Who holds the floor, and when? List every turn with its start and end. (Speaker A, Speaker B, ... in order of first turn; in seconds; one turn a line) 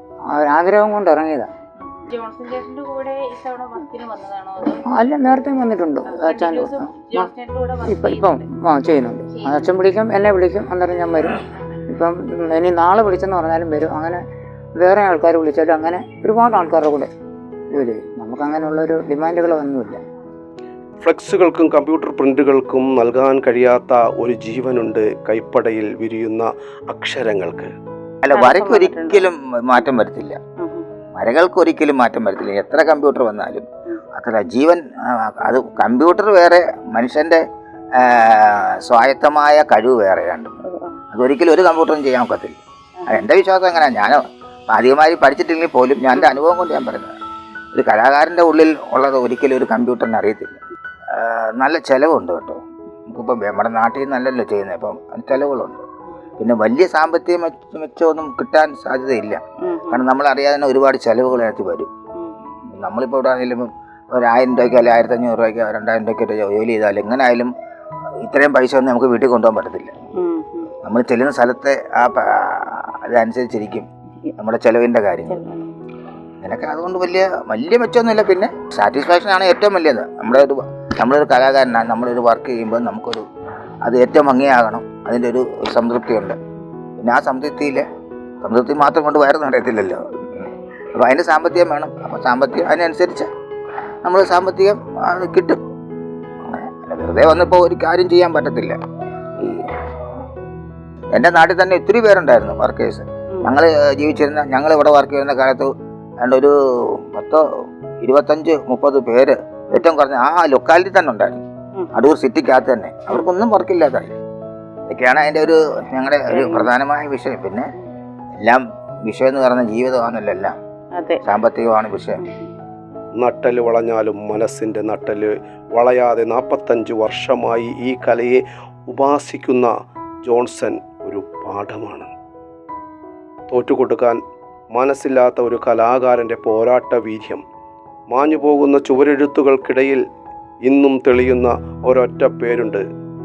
Speaker A: 0.3-1.5
Speaker B: 1.8-5.0
Speaker A: 4.8-7.3
Speaker B: 6.1-8.4
Speaker A: 7.8-14.2
Speaker B: 9.3-9.7
Speaker A: 14.8-17.1
Speaker A: 17.7-20.0
Speaker C: 21.0-27.7
Speaker D: 28.2-30.4
Speaker B: 28.3-29.3
Speaker B: 30.6-30.9
Speaker D: 31.2-37.4
Speaker D: 38.0-40.6
Speaker B: 40.6-41.0
Speaker D: 41.1-47.1
Speaker D: 47.7-50.6
Speaker D: 51.1-55.8
Speaker D: 56.4-61.9
Speaker B: 59.6-60.0
Speaker D: 62.7-67.5
Speaker D: 68.2-69.9
Speaker B: 70.2-70.7
Speaker D: 70.8-75.4
Speaker B: 75.3-75.8
Speaker D: 76.4-83.2
Speaker D: 83.8-86.4
Speaker D: 87.0-87.8
Speaker D: 88.4-93.3
Speaker D: 94.0-95.6
Speaker D: 96.4-98.8
Speaker D: 99.4-99.7
Speaker D: 101.1-107.4
Speaker D: 108.0-111.4
Speaker D: 111.9-114.1
Speaker D: 114.9-117.7
Speaker B: 116.3-116.7
Speaker D: 118.4-120.5
Speaker B: 121.0-121.2
Speaker D: 121.2-122.2
Speaker B: 122.2-122.5
Speaker C: 123.2-129.7
Speaker C: 130.2-132.1
Speaker C: 133.5-134.2
Speaker C: 134.7-137.4
Speaker C: 138.1-140.0
Speaker C: 140.7-142.8